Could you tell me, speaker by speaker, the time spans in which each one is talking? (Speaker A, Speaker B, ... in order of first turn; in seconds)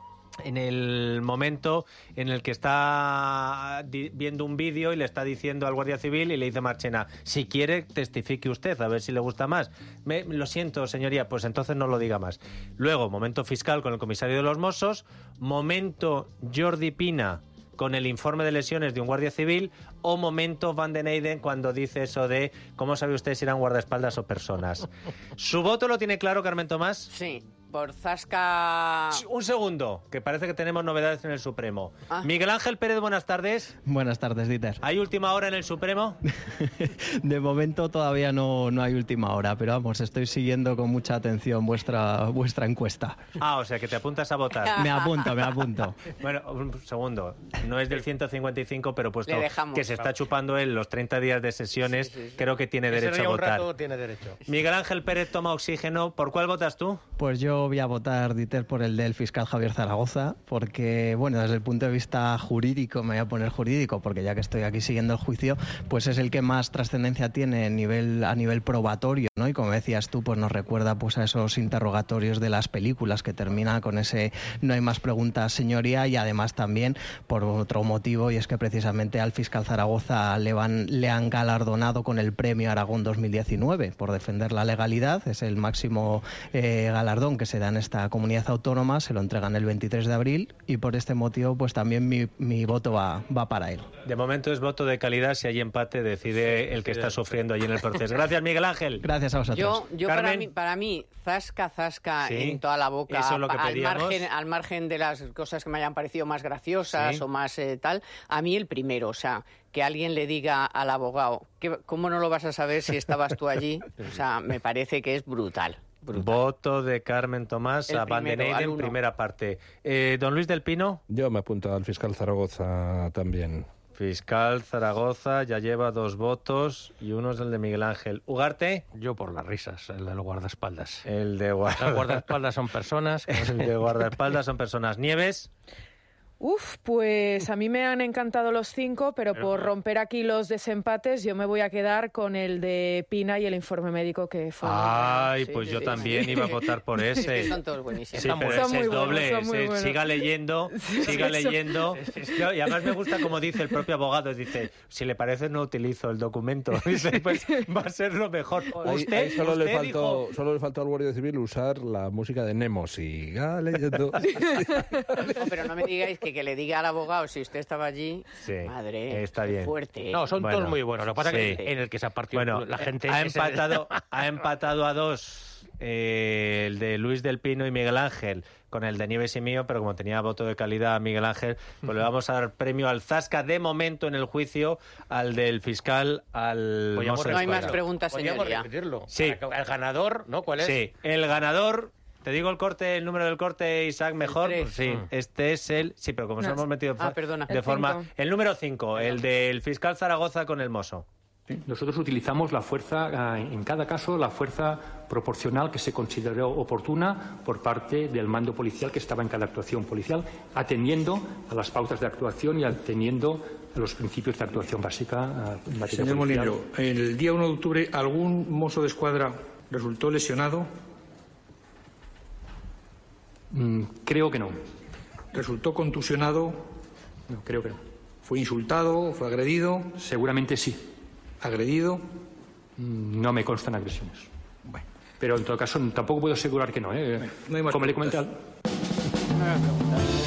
Speaker A: 0.4-27.1, 29.1-33.8, 34.8-36.2, 43.4-44.9, 46.1-53.7, 54.5-57.0, 94.0-99.0, 100.1-100.5, 102.2-104.3, 106.9-107.2, 116.1-121.0, 124.0-128.8, 131.1-132.2, 133.3-135.5, 144.6-147.6, 148.2-160.2, 168.4-169.8, 170.4-171.6, 172.3-187.8, 189.1-189.4, 190.6-201.1
Speaker B: 27.1-29.2, 44.7-45.3, 49.3-49.9, 51.9-52.4, 99.5-116.4, 117.9-119.0, 145.2-146.6, 147.1-148.3, 165.3-170.3, 187.3-188.7, 194.2-194.7, 197.0-197.7
Speaker C: 33.9-34.8, 36.4-43.3, 44.8-46.0, 57.2-93.9, 99.0-99.8
Speaker D: 52.9-54.4, 96.4-97.3, 128.9-131.1, 131.7-133.7, 139.4-139.7, 148.1-149.1, 170.1-174.2, 186.9-190.9, 194.8-195.1, 199.0-199.3
Speaker E: 121.1-123.7, 158.8-165.5
Speaker F: 136.4-145.3, 148.5-151.8, 197.5-198.1
Speaker G: 201.6-216.6, 223.5-224.6, 227.3-227.8, 230.0-230.8, 232.8-234.3, 235.2-238.4
Speaker H: 215.8-220.7, 225.3-226.7, 228.2-230.0, 231.4-232.0, 237.3-238.2